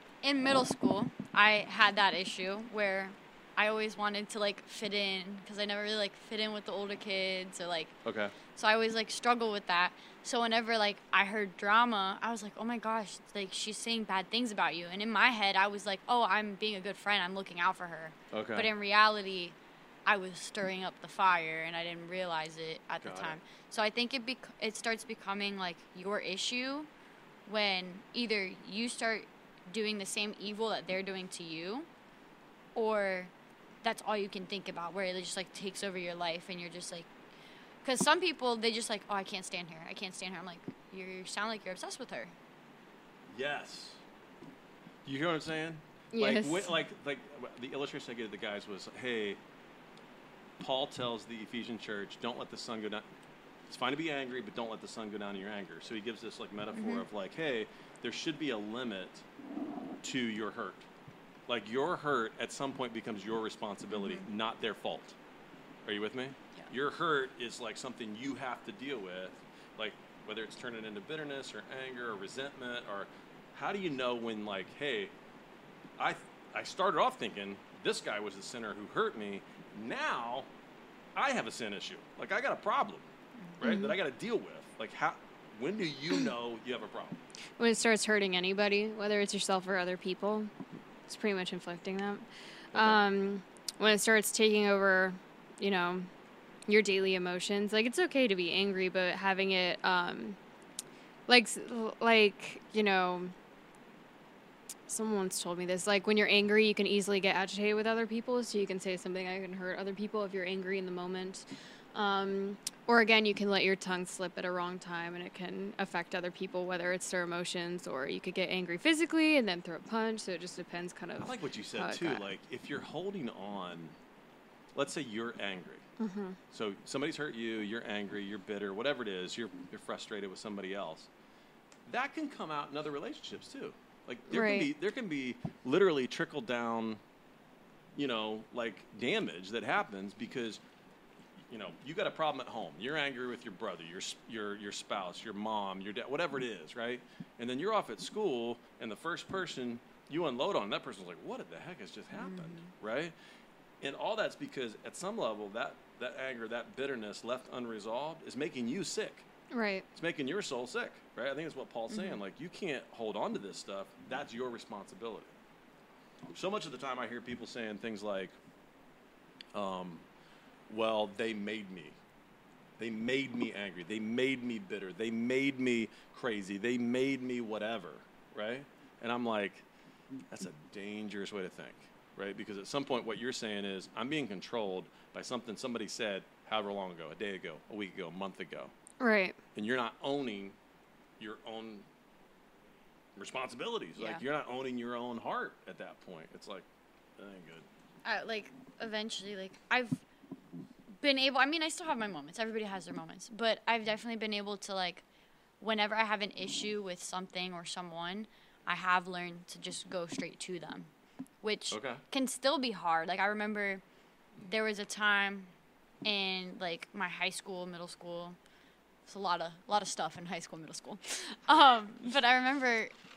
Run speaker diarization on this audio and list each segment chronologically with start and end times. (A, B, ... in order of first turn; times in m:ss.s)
0:00.2-0:08.0 A
0:08.0-0:08.3 B
0:08.5-0:26.9 A
0:18.3-0:18.7 B
0:23.0-0:23.4 B
0:27.4-0:31.9 A
0:32.7-0:33.3 A
0:33.8-0:37.1 A
0:37.8-0:42.3 A
0:43.3-0:44.0 B
0:45.0-0:49.4 B
0:46.1-0:46.7 C
0:50.6-0:53.1 B
0:53.7-0:59.2 B
0:56.7-0:57.0 A
1:00.0-1:00.9 B
1:01.5-1:05.2 B
1:03.9-1:04.2 A
1:05.8-1:15.1 B
1:16.0-1:20.5 B
1:21.1-1:27.2 B
1:23.6-1:23.9 C
1:27.6-1:30.5 C
1:31.1-1:36.1 C
1:32.7-1:33.0 B
1:36.7-1:40.4 C
1:41.3-1:43.3 C
1:44.9-2:02.3 C
2:01.2-2:04.0 B
2:04.7-2:05.8 B
2:06.0-2:06.4 C
2:06.5-2:11.1 B
2:11.8-2:17.0 B
2:14.3-2:14.7 C
2:18.0-2:20.6 B
2:21.5-2:33.1 B
2:32.1-2:32.7 A
2:33.8-2:39.2 B
2:39.5-2:39.8 C
2:39.9-2:45.4 B
2:41.9-2:42.2 A
2:46.3-2:48.4 B
2:49.5-2:50.0 B
2:50.7-2:52.0 B
2:52.8-2:59.6 B
3:00.3-3:08.7 B
3:09.0-3:09.4 C
3:09.5-3:10.6 B
3:11.2-3:11.9 B
3:13.2-3:16.7 B
3:14.0-3:14.2 A
3:17.2-3:17.7 B
3:18.0-3:20.0 A
3:21.0-3:25.0 A
3:25.6-3:30.9 A
3:31.4-3:33.8 A
3:31.7-3:32.0 B
3:34.4-3:35.5 A
3:36.0-3:38.4 A
3:39.1-3:42.9 A